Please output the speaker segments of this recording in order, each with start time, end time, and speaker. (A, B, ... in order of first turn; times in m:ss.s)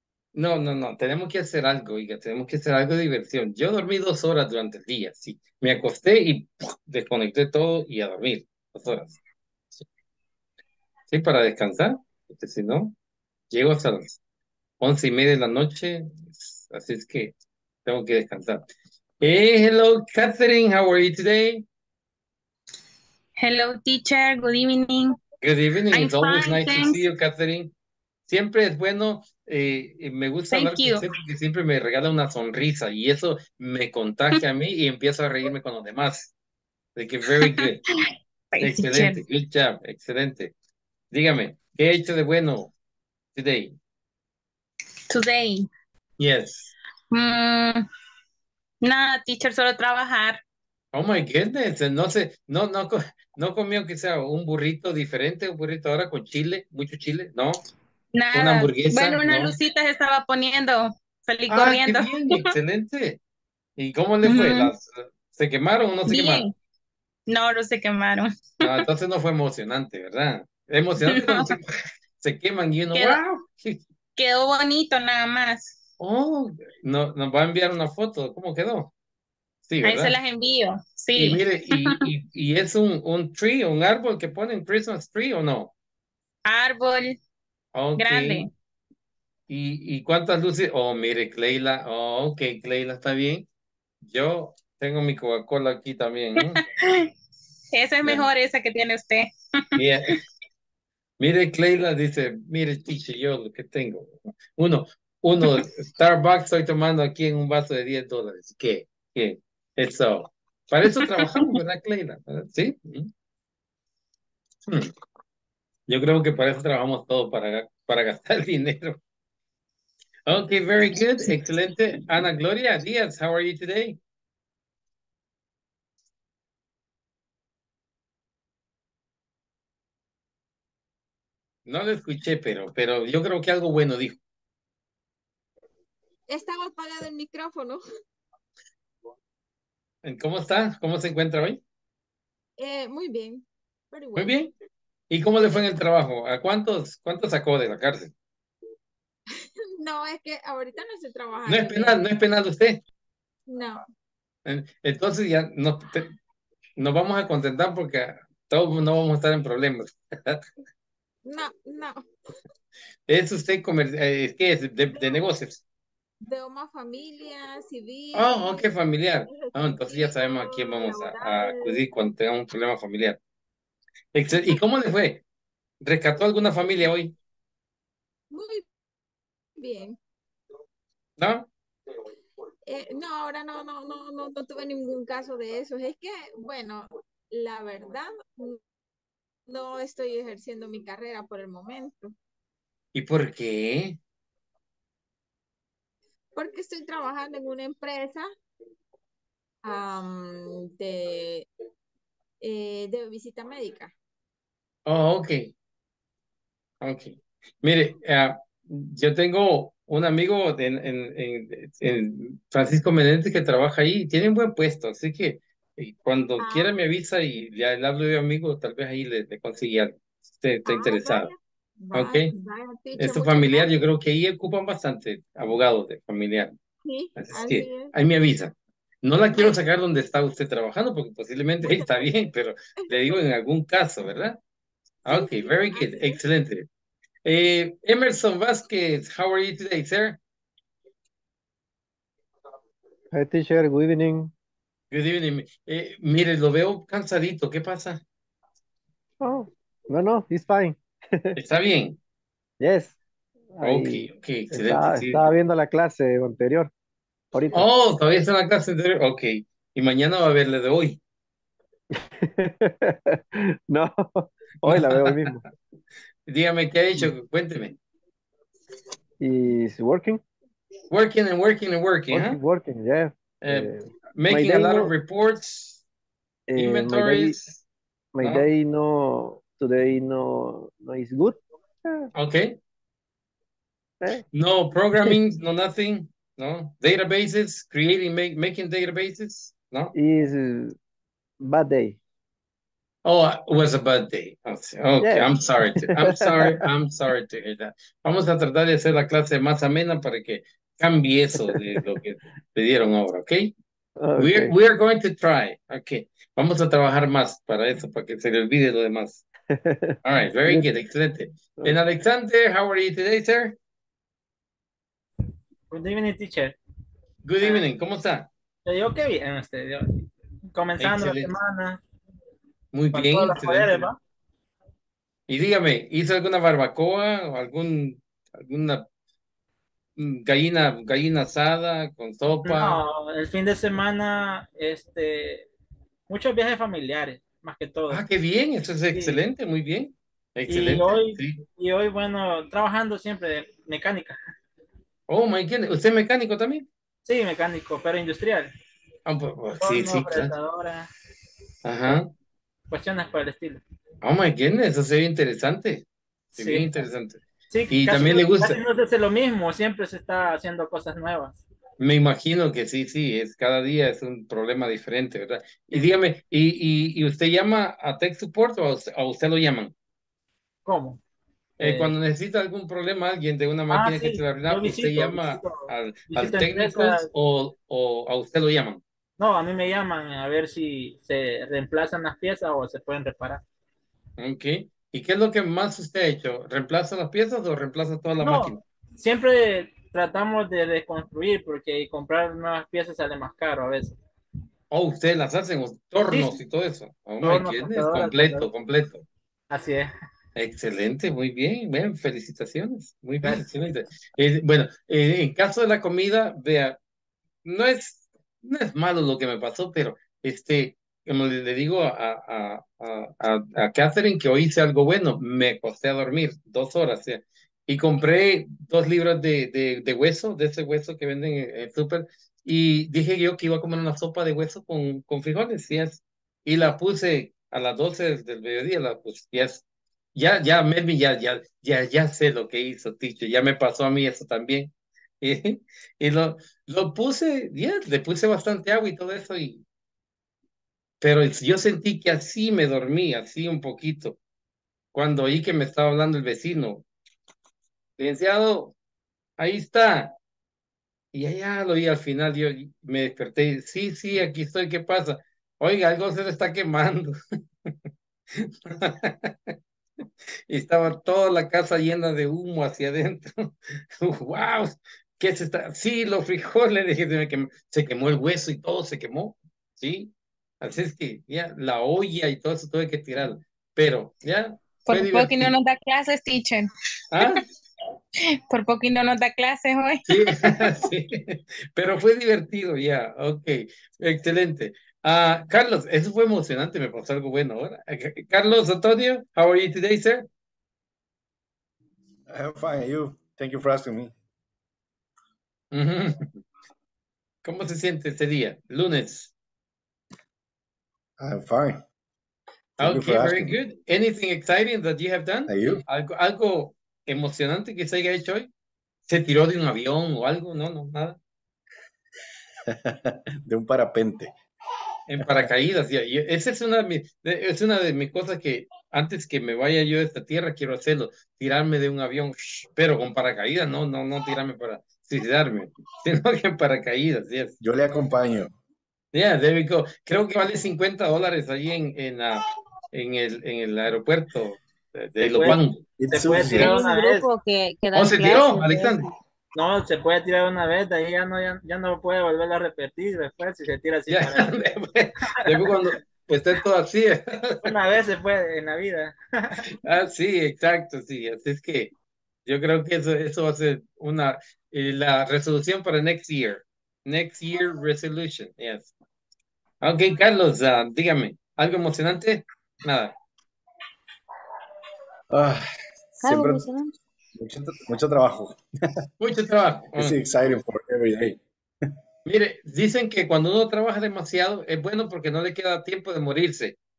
0:00.4-0:09.2 A
0:11.1-0:12.9 A
0:13.5-0:14.2 A
0:14.8-0:17.3 A
0:17.9-0:18.7 A
0:19.2-0:21.6 A
0:23.4-0:25.2 B
0:25.4-0:27.7 A
0:25.9-0:27.0 B
0:28.3-0:36.3 A
0:30.5-0:31.1 B
0:37.0-0:37.8 A
0:37.9-0:39.2 B
0:38.6-0:40.5 A
0:41.1-0:42.7 A
0:43.4-0:43.8 A
0:45.1-0:45.7 B
0:46.2-0:46.7 A
0:47.1-0:47.8 B
0:48.8-0:50.4 B
0:50.9-0:57.6 A
0:58.1-1:02.4 B
0:58.3-0:59.5 A
1:01.5-1:03.2 A
1:03.8-1:06.4 A
1:04.2-1:04.7 B
1:06.1-1:06.5 B
1:07.3-1:08.8 B
1:08.6-1:13.8 A
1:11.0-1:11.5 B
1:12.9-1:13.4 B
1:14.2-1:15.7 B
1:16.0-1:18.9 A
1:19.7-1:20.2 A
1:19.8-1:22.0 B
1:21.2-1:25.7 A
1:26.5-1:27.2 B
1:27.8-1:28.4 A
1:28.0-1:28.5 B
1:29.5-1:33.5 A
1:34.0-1:36.6 A
1:36.4-1:37.1 B
1:37.7-1:40.2 B
1:39.8-1:40.2 A
1:41.2-1:53.1 A
1:55.9-1:59.0 A
2:00.3-2:04.0 A
2:11.7-2:14.2 A
2:16.3-2:17.8 C
2:20.0-2:21.6 A
2:22.6-2:24.4 C
2:24.2-2:24.5 A
2:25.1-2:28.1 A
2:29.4-2:32.0 C
2:31.5-2:32.8 A
2:33.5-2:33.8 C
2:34.5-2:36.1 A
2:36.8-2:40.4 A
2:41.2-2:42.0 C
2:43.1-2:45.6 A
2:46.3-2:48.7 C
2:48.1-2:53.2 A
2:49.4-2:51.8 C
2:54.1-2:55.2 A
2:55.8-2:57.1 A
2:58.3-2:58.6 C
2:59.6-3:00.0 C
3:01.2-3:01.5 A
3:02.7-3:08.6 C
3:09.5-3:12.1 C
3:12.9-3:14.0 A
3:16.4-3:18.3 C
3:19.6-3:21.5 C
3:22.4-3:23.9 C
3:24.9-3:25.5 A
3:26.8-3:41.3 A
3:36.4-3:36.7 C
3:40.7-3:43.7 C
3:41.9-3:42.3 A
3:43.0-3:46.5 A
3:46.8-3:47.9 C
3:47.2-3:54.4 A
3:51.6-3:52.0 C
3:55.0-3:56.7 A
3:55.1-3:56.2 C
3:57.2-4:00.2 A
4:03.1-4:04.3 D
4:04.9-4:08.0 A
4:09.2-4:11.4 D
4:11.4-4:12.0 A
4:12.6-4:13.0 D
4:13.6-4:16.7 D
4:13.6-4:15.2 A
4:17.3-4:17.6 D
4:17.5-4:21.0 A
4:22.0-4:25.4 D
4:24.7-4:25.2 A
4:26.3-4:27.8 A
4:29.2-4:30.2 D
4:30.9-4:32.4 A
4:32.1-4:34.9 D
4:33.4-4:35.8 A
4:36.5-4:37.4 D
4:36.6-4:37.6 A
4:38.2-4:42.1 D
4:38.2-4:38.5 A
4:42.2-4:42.6 A
4:44.3-4:49.9 A
4:50.0-4:50.8 D
4:51.4-4:52.0 D
4:53.0-5:03.5 A
4:55.0-4:55.4 D
4:56.0-4:56.6 D
5:04.0-5:04.5 D
5:04.2-5:09.2 A
5:09.7-5:10.0 D
5:10.0-5:13.6 A
5:15.7-5:16.6 E
5:17.2-5:18.3 A
5:17.4-5:17.7 E
5:18.7-5:21.8 E
5:20.8-5:21.4 A
5:22.7-5:23.9 A
5:22.9-5:24.0 E
5:25.3-5:28.8 A
5:30.0-5:32.8 A
5:32.4-5:35.5 E
5:36.1-5:38.0 E
5:37.9-5:41.4 A
5:38.9-5:39.2 E
5:40.5-5:44.2 E
5:45.1-5:46.7 A
5:47.0-5:48.5 E
5:49.1-5:50.4 A
5:49.6-5:50.9 E
5:51.6-5:52.1 A
5:52.7-5:53.6 E
5:54.0-5:55.8 A
5:56.3-5:56.7 E
5:56.4-5:58.6 A
5:57.5-6:01.4 E
6:01.8-6:09.7 A
6:10.6-6:11.0 E
6:11.6-6:12.0 E
6:11.6-6:18.8 A
6:13.7-6:17.1 E
6:19.2-6:23.4 E
6:24.2-6:28.6 A
6:28.2-6:34.0 E
6:34.7-6:39.0 A
6:36.1-6:36.4 E
6:37.2-6:38.5 E
6:39.5-6:39.9 E
6:40.4-6:46.8 A
6:47.4-7:09.6 A
7:10.2-7:19.6 A
7:21.0-7:24.2 A
7:24.9-7:26.9 A
7:28.0-7:28.7 A
7:29.4-7:30.2 A
7:31.1-7:37.2 A
7:38.4-7:39.5 A
7:40.5-7:55.5 A
7:54.9-7:56.7 B
7:57.1-7:57.4 A
7:58.5-8:00.5 B
8:00.1-8:10.3 A
8:12.3-8:14.1 F
8:15.7-8:16.4 A
8:17.4-8:19.3 A
8:21.2-8:21.8 F
8:22.8-8:23.6 F
8:22.8-8:28.5 A
8:25.5-8:25.8 F
8:29.1-8:31.2 A
8:32.8-8:34.3 F
8:35.1-8:47.6 A
8:47.6-8:48.5 F
8:49.1-8:55.8 A
8:55.2-8:57.3 E
8:56.0-8:56.8 F
8:56.4-8:56.7 A
8:56.4-8:59.0 G
8:57.9-8:59.1 A
8:59.6-9:04.6 E
9:04.1-9:07.7 A
9:07.6-9:09.6 E
9:09.7-9:11.9 A
9:12.5-9:18.9 A
9:19.8-9:23.1 A
9:25.3-9:25.7 F
9:26.2-9:26.9 G
9:26.2-9:26.7 F
9:27.4-9:28.6 F
9:29.2-9:30.2 A
9:30.0-9:31.4 F
9:32.2-9:36.8 A